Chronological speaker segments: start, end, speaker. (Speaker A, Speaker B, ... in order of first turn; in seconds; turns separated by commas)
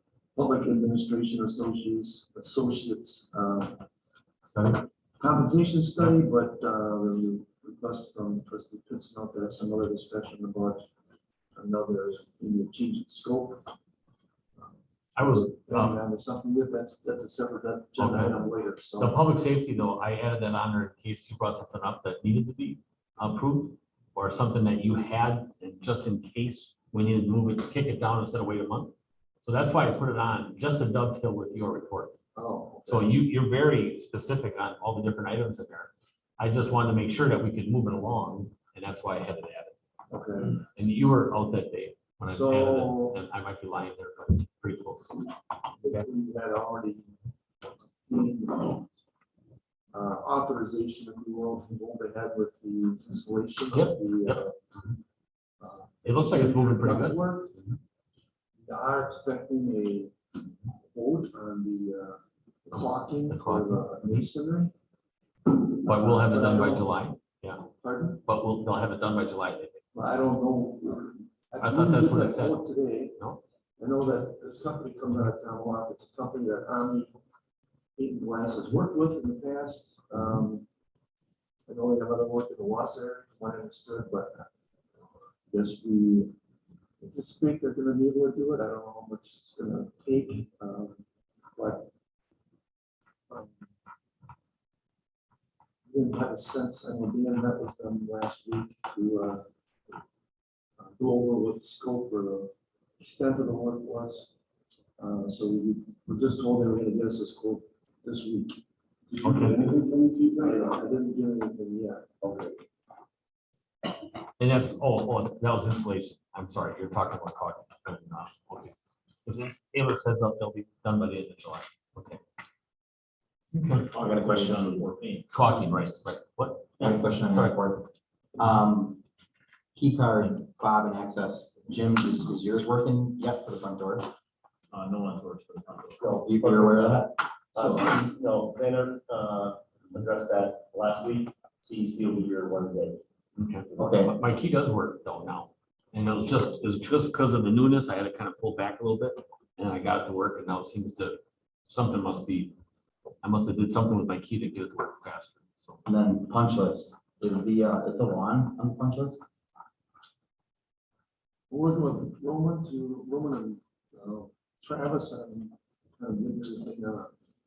Speaker A: 0.3-3.8, Speaker B: 4.5-4.8, Speaker A: 5.2-10.9, Speaker A: 11.6-13.7, Speaker A: 14.6-19.2, Speaker B: 15.2-16.0, Speaker B: 18.0-18.4, Speaker B: 19.0-32.2, Speaker A: 32.4-33.2, Speaker B: 32.9-39.7, Speaker A: 40.1-40.6, Speaker B: 40.8-45.1, Speaker A: 42.2-43.2, Speaker A: 45.8-47.1, Speaker A: 47.7-48.9, Speaker A: 49.9-54.6, Speaker B: 53.7-54.4, Speaker A: 55.6-57.6, Speaker B: 56.0-57.2, Speaker A: 58.6-60.1, Speaker A: 60.8-64.7, Speaker B: 63.3-64.2, Speaker A: 65.5-67.0, Speaker B: 65.9-67.6, Speaker A: 67.7-68.2, Speaker B: 68.2-69.8, Speaker A: 69.9-73.2, Speaker B: 71.6-72.6, Speaker A: 73.8-77.2, Speaker A: 78.0-80.7, Speaker A: 81.7-84.5, Speaker A: 85.5-86.3, Speaker A: 87.0-91.0, Speaker A: 91.6-91.9, Speaker A: 93.3-93.6, Speaker A: 95.9-99.4, Speaker A: 100.8-104.3, Speaker A: 105.0-112.1, Speaker B: 109.2-109.6, Speaker C: 109.5-110.5, Speaker C: 112.2-112.5, Speaker B: 114.4-118.8, Speaker B: 119.3-122.2, Speaker B: 123.5-123.9, Speaker C: 123.9-125.3, Speaker D: 124.2-124.8, Speaker B: 125.3-127.6, Speaker D: 126.8-129.0, Speaker D: 129.8-134.1, Speaker C: 134.7-143.0, Speaker D: 136.0-137.1, Speaker B: 143.4-152.6, Speaker D: 143.8-144.2, Speaker B: 153.2-155.9, Speaker D: 155.9-159.2, Speaker A: 161.5-167.1